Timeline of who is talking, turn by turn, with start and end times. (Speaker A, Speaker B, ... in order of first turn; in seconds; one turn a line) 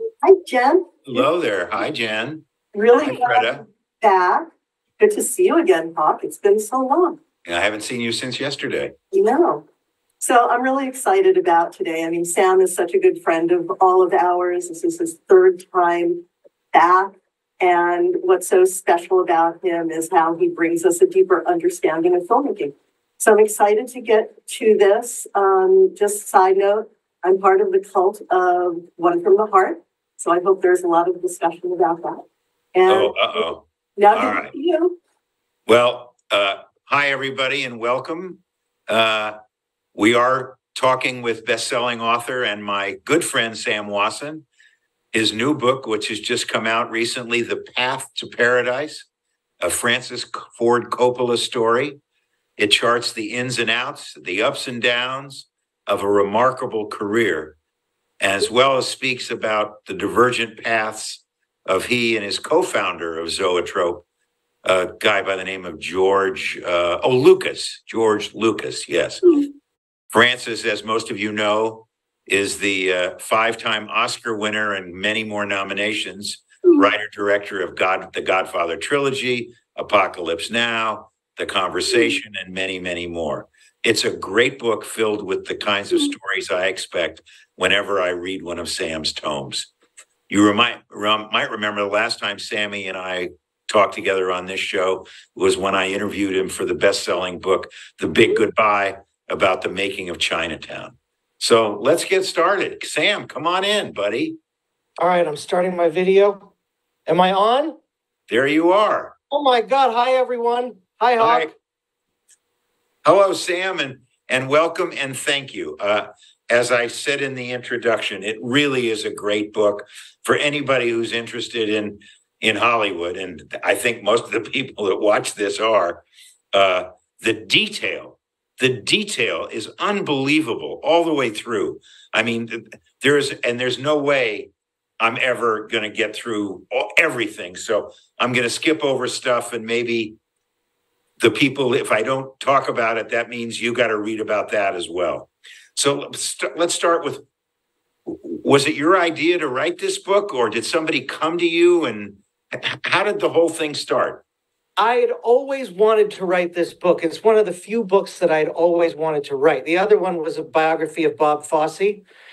Speaker A: 0.2-1.2
Speaker B: 1.1-2.4
Speaker A: 2.7-4.5
Speaker B: 3.0-3.6
Speaker A: 5.0-7.2
Speaker B: 7.4-8.9
Speaker A: 9.1-9.6
Speaker A: 10.2-32.2
Speaker A: 32.7-35.0
Speaker B: 32.9-34.5
Speaker B: 35.7-39.4
Speaker B: 39.9-44.4
Speaker B: 45.1-49.1
Speaker B: 49.6-52.0
Speaker B: 52.6-57.6
Speaker B: 58.2-64.0
Speaker B: 64.6-69.4
Speaker B: 70.1-89.7
Speaker B: 90.3-104.4
Speaker C: 105.0-106.5
Speaker C: 107.0-107.8
Speaker B: 108.3-109.1
Speaker C: 109.3-111.5
Speaker B: 111.2-111.5
Speaker B: 113.0-140.2
Speaker B: 141.2-147.2
Speaker B: 148.1-154.2
Speaker C: 154.8-162.0